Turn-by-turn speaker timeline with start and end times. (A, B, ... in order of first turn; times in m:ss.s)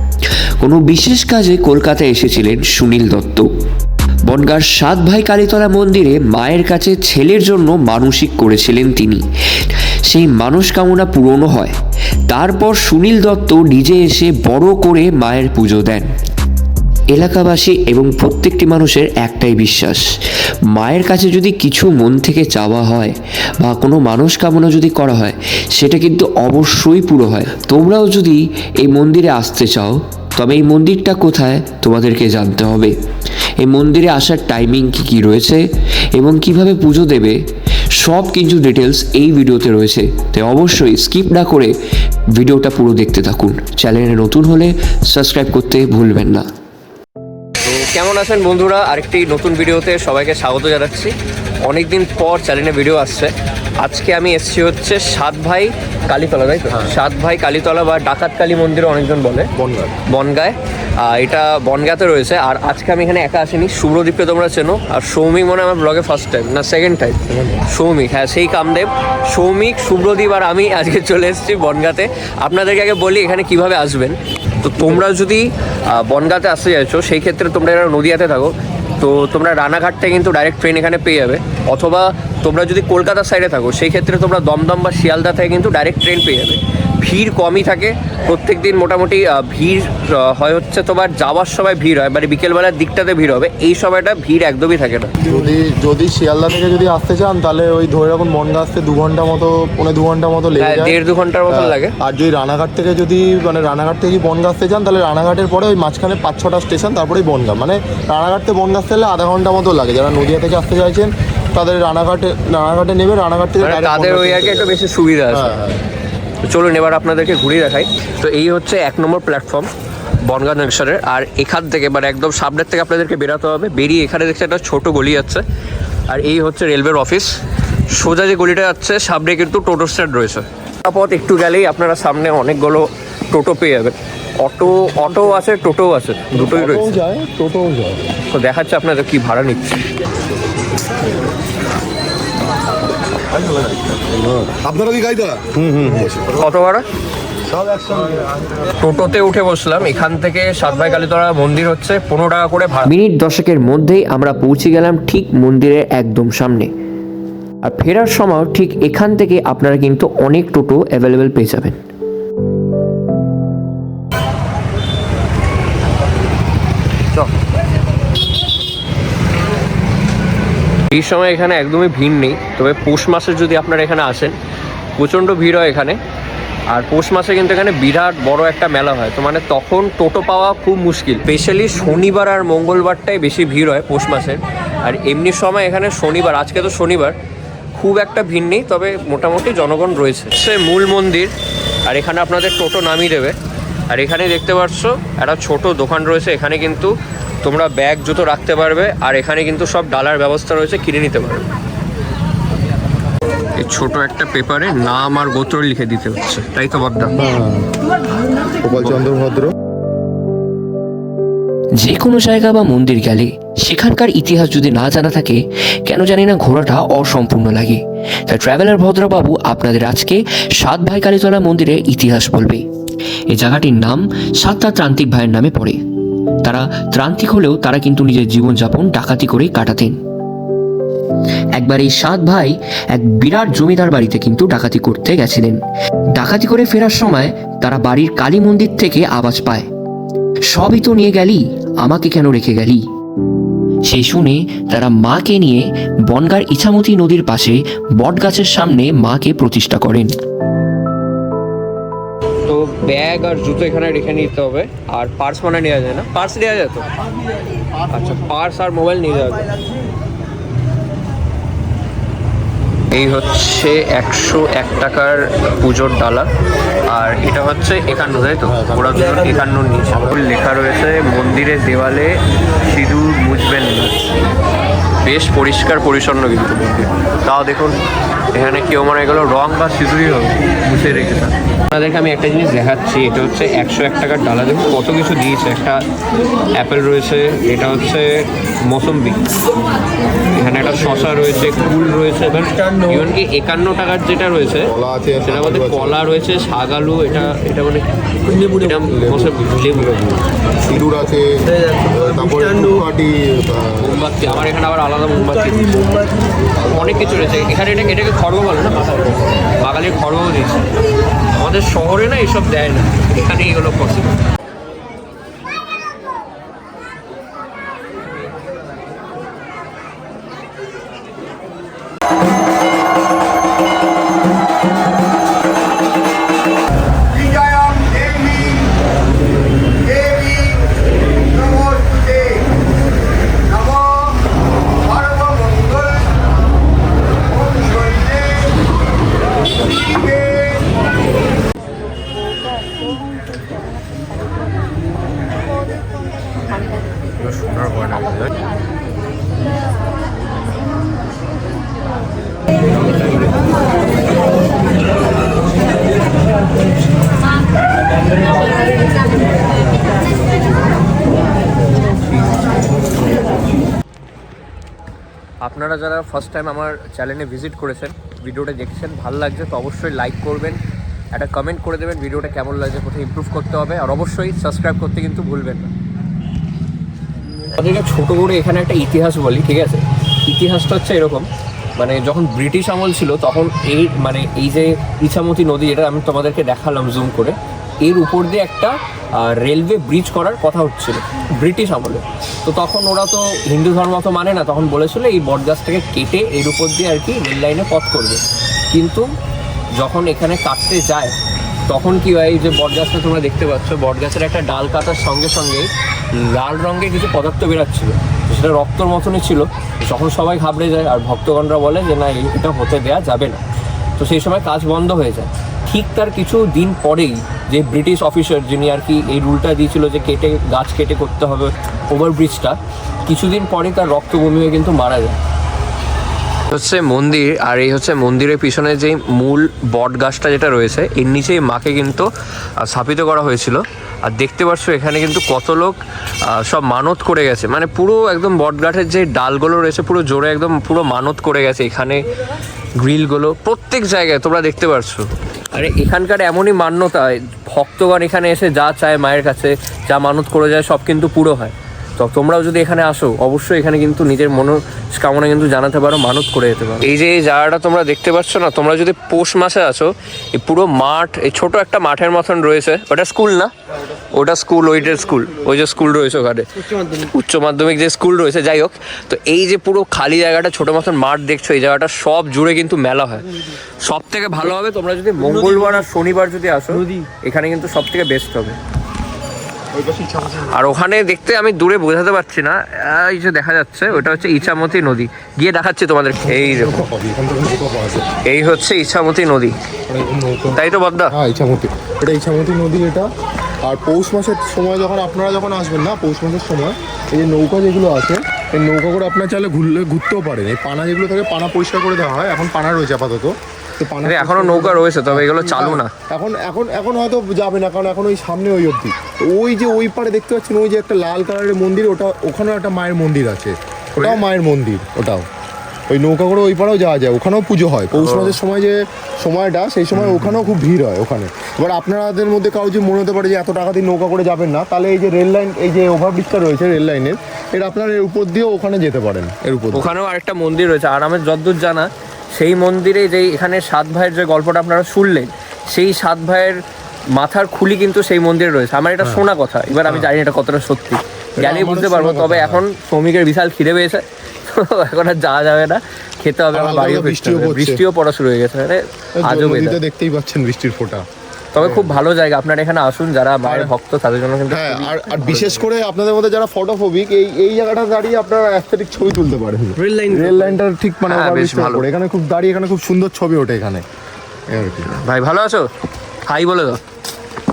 0:00.6-0:03.5 A
0:04.2-0:11.8 A
0:12.3-0:16.1 A
0:17.1-0:20.0 A
0:20.7-0:32.9 A
0:33.6-0:37.4 A
0:37.9-0:41.7 A
0:42.3-0:46.5 A
0:47.6-0:59.5 B
0:59.6-1:00.0 C
1:00.1-1:35.2 B
1:07.3-1:07.6 C
1:35.2-1:54.8 C
1:40.6-1:42.0 B
1:53.6-1:55.6 B
1:55.3-1:55.8 C
1:56.5-1:59.7 B
2:00.2-2:05.4 B
2:06.1-2:07.3 B
2:07.9-2:17.0 B
2:16.3-2:18.0 C
2:18.3-2:19.8 B
2:23.3-2:26.4 C
2:26.4-2:26.8 B
2:27.5-2:28.2 C
2:28.8-2:32.9 B
2:32.9-2:36.7 A
2:37.6-2:41.8 A
2:50.9-2:54.4 B
2:55.0-2:56.0 B
2:56.7-3:07.2 B
3:07.8-3:11.3 B
3:11.8-3:13.4 B
3:13.9-3:21.5 B
3:23.6-3:27.2 B
3:27.2-3:27.7 C
3:28.6-3:29.5 C
3:28.8-3:29.1 B
3:31.8-3:42.6 A
3:43.3-3:45.8 A
3:46.4-3:50.0 A
3:51.6-3:55.6 A
3:56.1-3:59.7 A
4:00.5-4:02.8 A
4:03.8-4:10.1 A
4:12.5-4:16.9 B
4:17.9-4:19.5 B
4:22.9-4:26.3 B
4:26.9-4:34.0 B
4:28.5-4:30.2 C
4:35.0-4:37.8 B
4:38.3-4:45.8 B
4:46.5-4:49.2 B
4:50.3-4:54.7 B
4:54.6-4:56.0 C
4:55.3-5:00.0 B
4:58.8-5:04.0 C
5:03.8-5:06.0 B
5:06.7-5:10.7 B
5:11.4-5:14.2 B
5:47.5-5:48.0 B
6:05.4-6:10.6 B
6:11.1-6:15.7 B
6:17.5-6:39.1 B
6:39.8-6:41.2 B
6:41.7-6:53.4 B
6:54.0-7:05.2 B
7:06.5-7:22.1 B
7:22.8-7:43.5 B
7:44.1-7:58.6 B
7:59.7-8:00.5 C
8:00.5-8:06.9 B
8:06.3-8:08.1 C
8:08.2-8:09.6 B
8:09.9-8:13.1 C
8:10.5-8:11.2 B
8:13.6-8:35.3 C
8:24.0-8:25.9 B
8:34.0-8:34.2 B
8:35.9-8:49.9 C
8:37.9-8:38.4 B
8:39.9-8:40.5 B
8:49.7-8:56.6 B
8:57.2-9:09.8 B
8:59.0-8:59.3 C
8:59.8-9:00.1 C
9:01.4-9:02.6 C
9:06.5-9:07.8 C
9:09.2-9:11.0 C
9:11.6-9:15.6 B
9:11.6-9:12.0 C
9:13.4-9:13.7 C
9:14.5-9:23.8 C
9:19.8-9:20.6 B
9:21.1-9:21.8 B
9:24.5-9:24.9 C
9:24.9-9:25.7 B
9:26.3-9:26.8 B